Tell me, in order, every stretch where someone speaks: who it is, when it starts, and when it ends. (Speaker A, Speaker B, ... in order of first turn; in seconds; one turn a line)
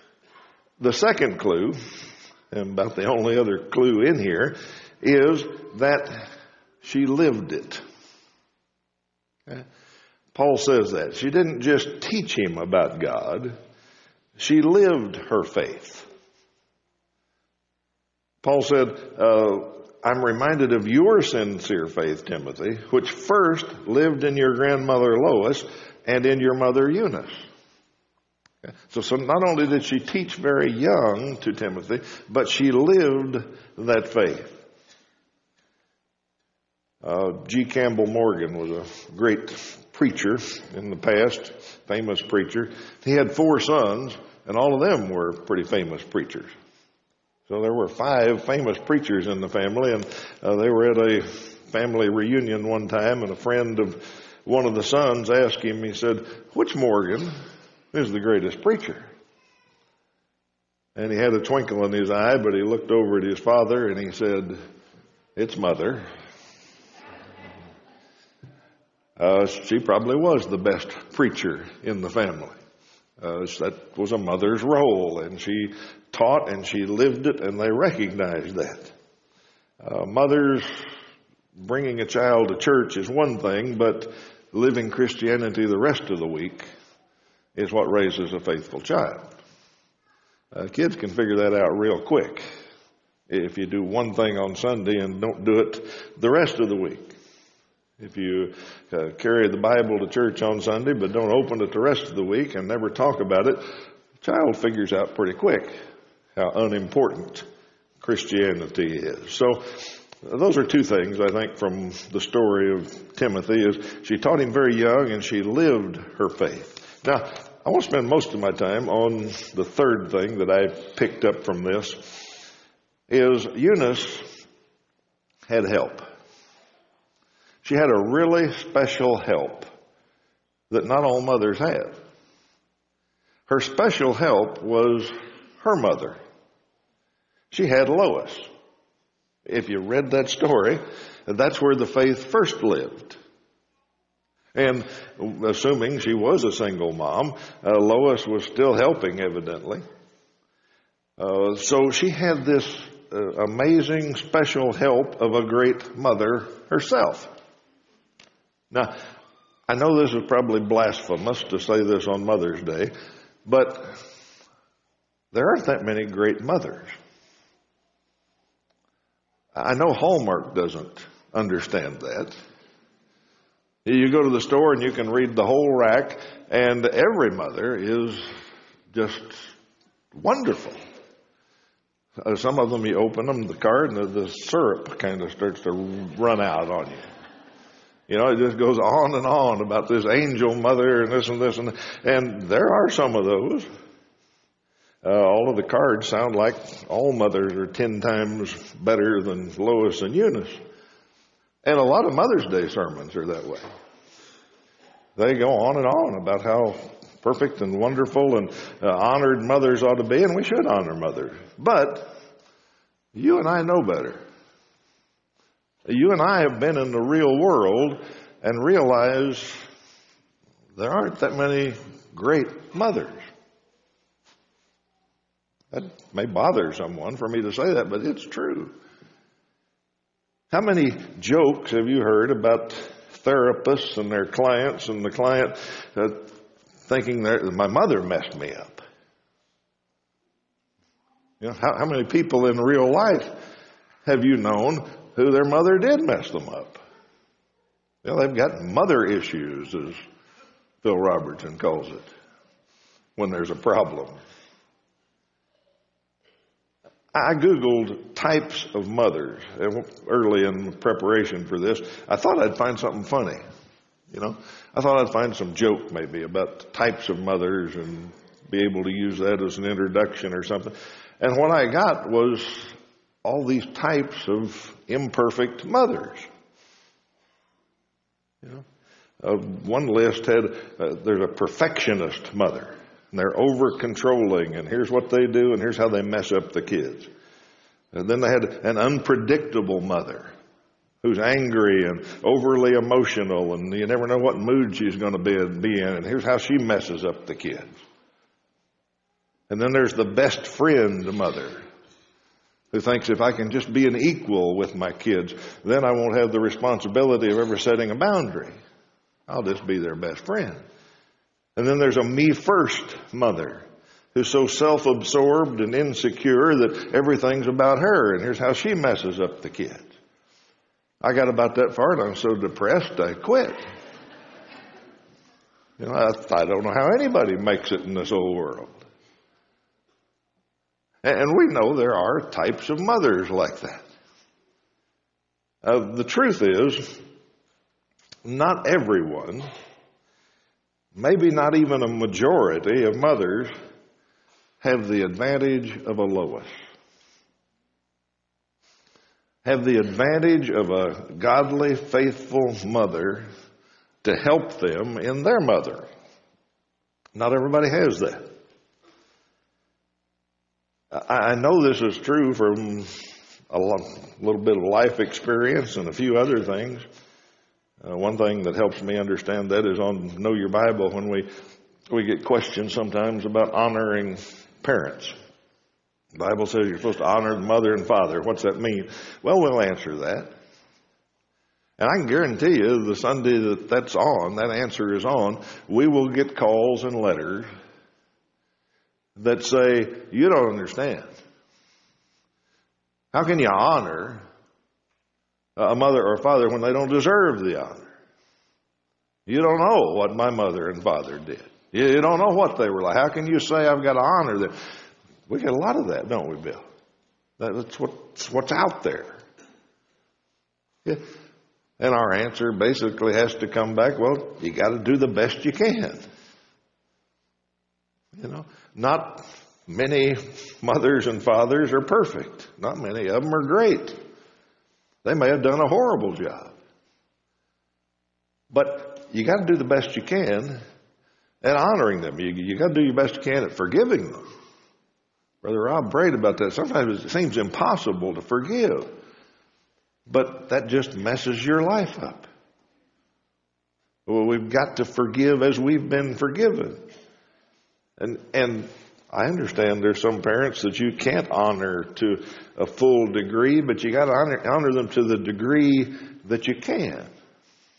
Speaker A: 0.8-1.8
Speaker A: 2.5-6.3
Speaker A: 6.8-7.8
Speaker A: 10.3-13.6
Speaker A: 14.4-16.1
Speaker A: 18.4-27.4
Speaker A: 28.6-34.6
Speaker A: 37.0-46.5
Speaker A: 47.5-57.3
Speaker A: 57.9-59.1
Speaker A: 60.9-64.6
Speaker A: 65.3-66.0
Speaker A: 69.2-72.5
Speaker A: 73.2-78.9
Speaker A: 79.8-80.8
Speaker A: 81.6-86.7
Speaker A: 87.5-89.4
Speaker A: 90.5-92.4
Speaker A: 93.3-97.2
Speaker A: 98.0-103.6
Speaker A: 104.2-105.7
Speaker A: 106.3-107.5
Speaker A: 108.0-122.4
Speaker A: 123.1-124.3
Speaker A: 125.5-126.0
Speaker A: 127.6-129.7
Speaker A: 130.7-132.0
Speaker A: 133.5-136.2
Speaker A: 137.5-138.5
Speaker A: 139.4-143.2
Speaker A: 144.5-149.8
Speaker A: 151.2-157.3
Speaker A: 158.7-159.0
Speaker A: 159.7-162.9
Speaker A: 163.4-164.0
Speaker A: 165.3-166.9
Speaker A: 169.5-172.3
Speaker A: 173.8-178.3
Speaker A: 178.9-179.5
Speaker A: 180.1-180.8
Speaker A: 182.2-187.0
Speaker A: 188.1-193.7
Speaker A: 195.0-200.6
Speaker A: 201.6-203.6
Speaker A: 205.2-212.1
Speaker A: 213.1-214.2
Speaker A: 215.9-219.6
Speaker A: 220.8-223.2
Speaker A: 225.7-228.7
Speaker A: 230.5-236.3
Speaker A: 236.9-238.8
Speaker A: 241.4-243.3
Speaker A: 244.0-246.8
Speaker A: 248.0-250.0
Speaker A: 250.8-252.1
Speaker A: 253.2-254.1
Speaker A: 257.1-263.4
Speaker A: 264.1-272.7
Speaker A: 273.2-276.3
Speaker A: 279.2-287.1
Speaker A: 287.9-290.3
Speaker A: 291.0-297.7
Speaker A: 299.5-301.6
Speaker A: 302.7-308.5
Speaker A: 309.3-310.6
Speaker A: 311.6-319.9
Speaker A: 321.0-323.6
Speaker A: 325.8-328.9
Speaker A: 331.0-333.8
Speaker A: 335.6-337.0
Speaker A: 338.2-339.5
Speaker A: 340.9-343.5
Speaker A: 344.6-346.5
Speaker A: 349.4-353.3
Speaker A: 354.0-355.9
Speaker A: 357.1-358.3
Speaker A: 360.9-363.0
Speaker A: 363.5-366.8
Speaker A: 367.8-371.3
Speaker A: 371.9-375.1
Speaker A: 376.2-380.3
Speaker A: 381.8-387.5
Speaker A: 389.1-391.1
Speaker A: 393.1-394.2
Speaker A: 395.6-397.9
Speaker A: 399.2-404.5
Speaker A: 405.3-406.6
Speaker A: 407.4-409.2
Speaker A: 411.8-416.0
Speaker A: 418.1-424.0
Speaker A: 425.0-426.5
Speaker A: 428.5-430.6
Speaker A: 431.4-434.2
Speaker A: 435.4-438.9
Speaker A: 440.1-442.3
Speaker A: 444.1-446.9
Speaker A: 448.0-457.1